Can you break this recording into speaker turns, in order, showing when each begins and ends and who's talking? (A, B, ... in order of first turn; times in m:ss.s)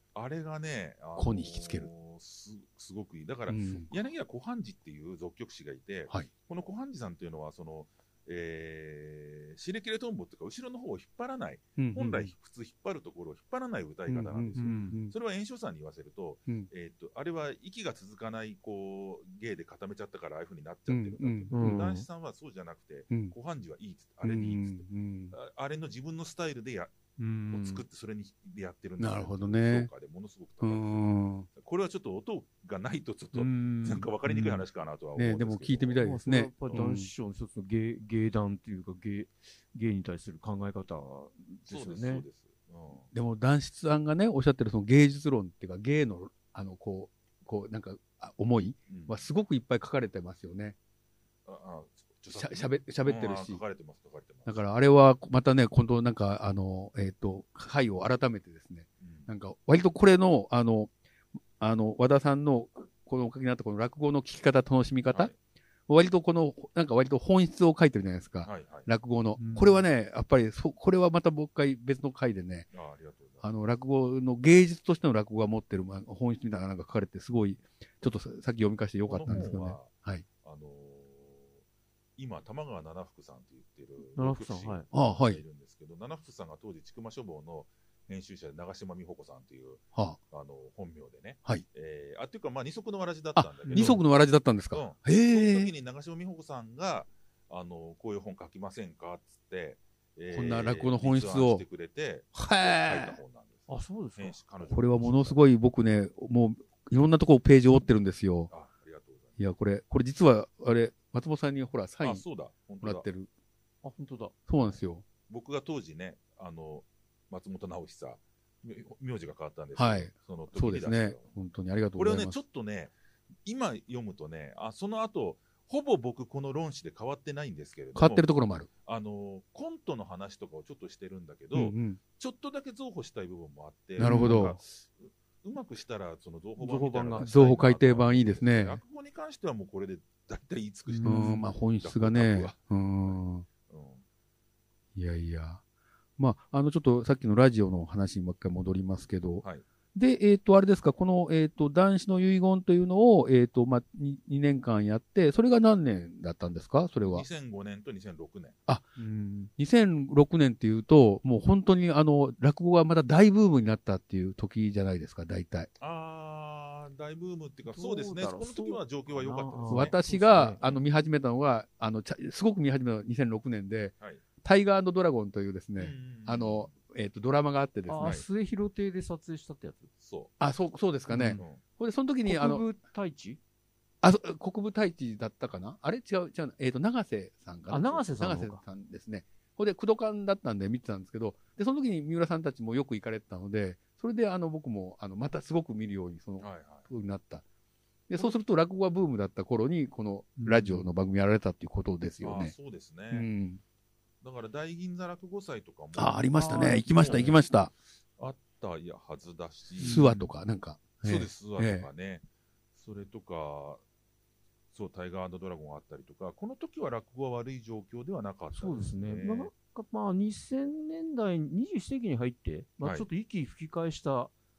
0:00.1-0:26.9 A
0:01.2-0:01.9 B
0:03.5-0:03.9 B
0:11.8-0:12.3 B
0:14.1-0:15.1 B
0:14.5-0:15.0 C
0:20.9-0:21.8 B
0:21.5-0:22.0 C
0:24.2-0:25.4 B
0:27.2-0:27.8 C
0:27.5-0:36.1 A
0:29.0-0:29.9 B
0:30.6-0:31.5 B
0:33.4-0:34.6 C
0:35.2-0:37.1 B
0:36.0-0:42.2 C
0:36.6-0:36.9 A
0:41.7-0:43.1 A
0:43.1-0:50.8 B
0:48.9-0:49.2 A
0:51.4-0:54.6 A
0:52.3-0:53.6 B
0:54.4-1:00.9 B
0:59.0-0:59.3 A
1:01.6-1:05.3 B
1:05.1-1:05.4 A
1:05.9-1:12.7 B
1:08.4-1:08.9 A
1:09.4-1:09.8 C
1:12.7-1:13.5 A
1:13.4-1:20.2 B
1:19.0-1:21.6 A
1:19.3-1:19.5 C
1:22.2-1:34.1 A
1:24.1-1:24.9 C
1:24.9-1:25.4 B
1:33.4-1:35.7 B
1:33.6-1:34.0 C
1:34.7-1:45.4 A
1:40.3-1:41.6 B
1:42.4-1:43.2 B
1:43.7-1:44.4 C
1:44.7-1:48.5 B
1:48.5-1:49.4 A
1:49.4-1:52.2 B
1:52.0-1:53.0 A
1:52.8-1:53.3 B
1:53.8-1:54.4 C
1:54.5-1:55.0 B
1:55.3-2:01.4 A
1:59.8-2:02.4 B
2:02.0-2:02.9 A
2:03.4-2:24.0 A
2:07.9-2:08.7 B
2:11.5-2:12.0 B
2:14.0-2:14.6 B
2:14.0-2:14.5 C
2:16.6-2:17.3 C
2:17.2-2:18.8 B
2:20.9-2:21.5 C
2:21.0-2:23.4 B
2:24.9-2:25.6 B
2:26.2-2:29.4 B
2:29.9-2:37.2 B
2:37.0-2:38.6 A
2:38.7-2:45.7 B
2:45.8-2:50.0 A
2:47.7-2:50.6 C
2:49.7-2:58.2 B
2:55.8-2:56.7 A
2:57.9-2:59.9 C
3:00.0-3:00.3 A
3:00.4-3:02.6 B
3:01.1-3:01.4 C
3:01.4-3:01.6 A
3:02.2-3:03.4 C
3:04.0-3:17.4 B
3:07.7-3:08.6 C
3:16.4-3:16.9 A
3:18.1-3:22.5 B
3:20.4-3:20.8 C
3:22.2-3:23.3 A
3:23.1-3:23.6 B
3:24.2-3:27.5 A
3:25.9-3:27.7 B
3:28.2-3:30.1 A
3:29.8-3:30.3 C
3:29.8-3:31.9 B
3:31.0-3:32.2 A
3:32.8-3:33.8 A
3:34.7-3:39.5 A
3:38.5-3:44.3 C
3:42.8-3:43.1 A